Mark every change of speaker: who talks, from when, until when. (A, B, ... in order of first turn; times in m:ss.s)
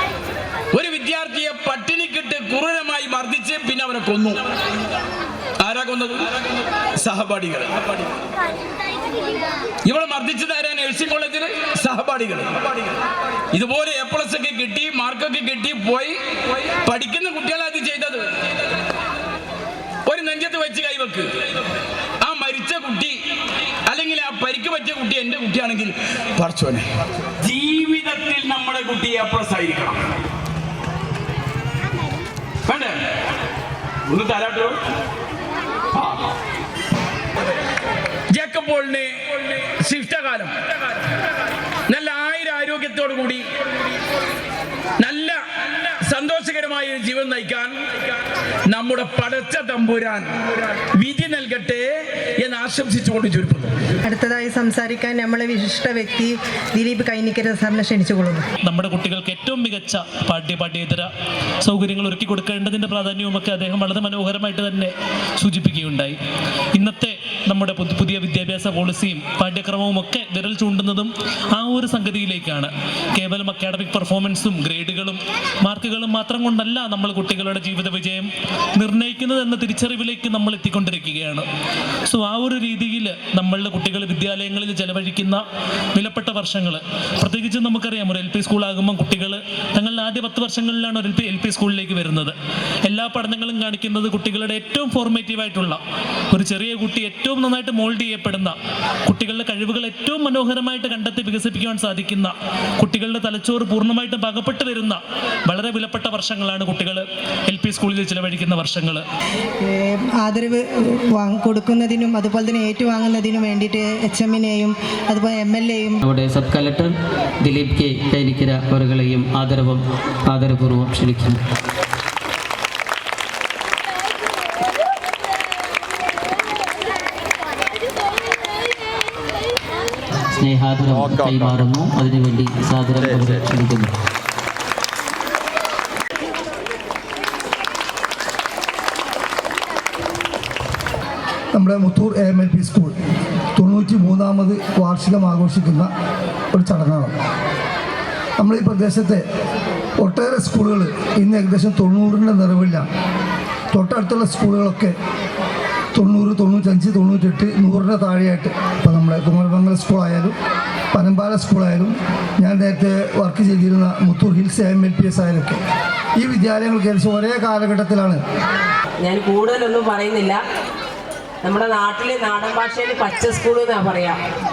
0:00.7-0:04.4 A
0:05.6-0:06.2 A
0:07.0-0:07.8 A
0:09.8-0:12.6 A
0:13.5-0:16.1 A
0:16.8-0:18.2 A
0:20.0-0:21.3 A
0:22.2-0:23.2 A
0:23.9-0:26.8 A
0:27.4-0:30.0 A
0:32.7-0:33.0 A
0:34.1-0:34.8 A
0:38.3-0:40.5 A
0:41.9-0:43.4 A
0:45.0-0:45.4 A
0:46.0-0:47.8 A
0:48.7-0:50.3 A
0:51.0-0:53.8 A
0:54.1-0:58.4 B
0:58.6-1:01.1 C
1:01.6-1:06.2 C
1:06.8-1:18.3 C
1:18.8-1:21.5 C
1:22.1-1:25.4 C
1:26.0-1:32.3 C
1:32.9-1:35.8 C
1:36.3-1:38.5 C
1:39.1-1:49.0 C
1:49.7-1:50.6 B
1:51.1-1:56.0 B
1:56.0-1:56.9 D
1:57.4-2:01.4 D
2:10.4-2:13.9 D
2:21.5-2:22.9 E
2:23.6-2:25.9 E
2:26.5-2:27.2 E
2:28.4-2:29.2 E
2:30.0-2:32.8 E
2:33.7-2:34.9 E
2:35.9-2:40.3 E
2:40.9-2:45.6 E
2:46.2-2:48.2 E
2:49.0-2:50.4 F
2:51.4-2:54.2 F